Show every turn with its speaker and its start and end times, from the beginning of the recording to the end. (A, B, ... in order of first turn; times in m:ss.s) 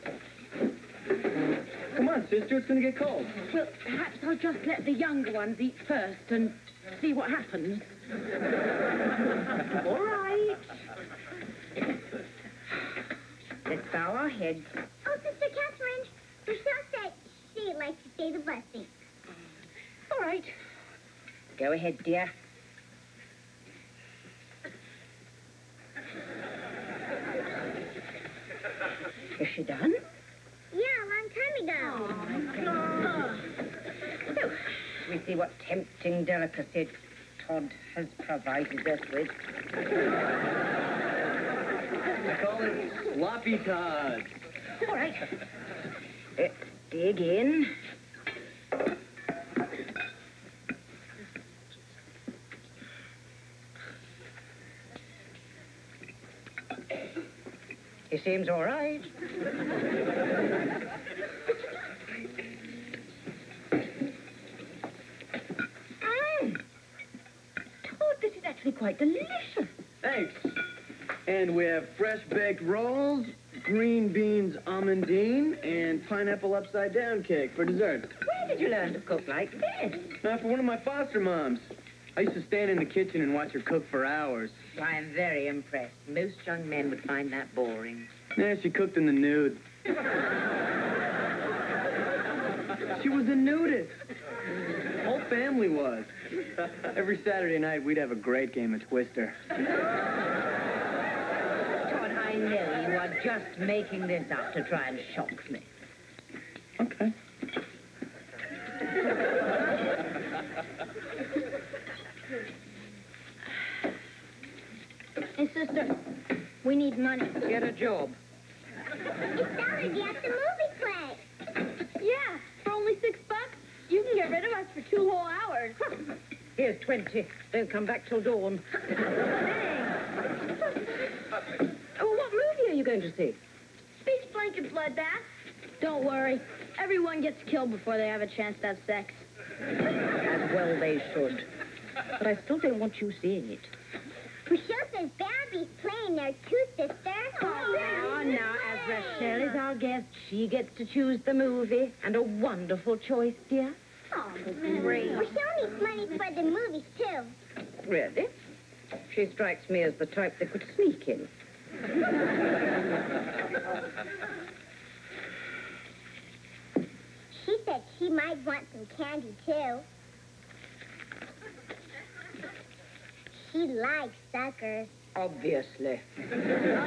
0:01.9-0:03.4 A
0:03.5-0:08.0 B
0:09.8-0:10.5 B
0:13.7-0:14.7 B
0:15.0-0:19.0 C
0:20.1-0:20.5 B
0:21.6-0:22.3 B
0:29.4-0:30.0 B
0:30.7-0:32.4 C
0:35.0-0:39.3 B
0:42.2-0:44.3 A
0:44.8-0:45.4 B
0:46.4-0:47.7 B
0:58.1-0:59.1 B
1:06.0-1:06.6 B
1:07.8-1:09.7 B
1:10.0-1:10.6 A
1:11.3-1:18.1 A
1:18.2-1:20.1 B
1:20.2-1:24.6 A
1:24.7-1:28.1 B
1:28.4-1:29.6 A
1:33.0-1:34.0 A
1:35.0-1:36.1 A
1:36.9-1:39.4 A
1:41.9-1:45.7 B
1:46.8-1:47.1 A
1:55.4-1:56.0 D
1:56.6-1:57.4 D
1:57.4-1:58.2 B
1:59.4-2:01.2 C
2:02.0-2:03.2 D
2:03.9-2:05.8 D
2:06.6-2:08.6 B
2:12.0-2:13.4 B
2:14.1-2:14.6 D
2:15.8-2:19.2 D
2:20.2-2:21.5 B
2:22.2-2:23.7 B
2:24.5-2:29.4 C
2:27.8-2:33.8 B
2:34.5-2:37.3 C
2:37.8-2:38.3 B
2:39.1-2:41.3 B
2:47.3-2:49.9 C
2:53.3-2:55.0 C
2:55.1-2:56.0 B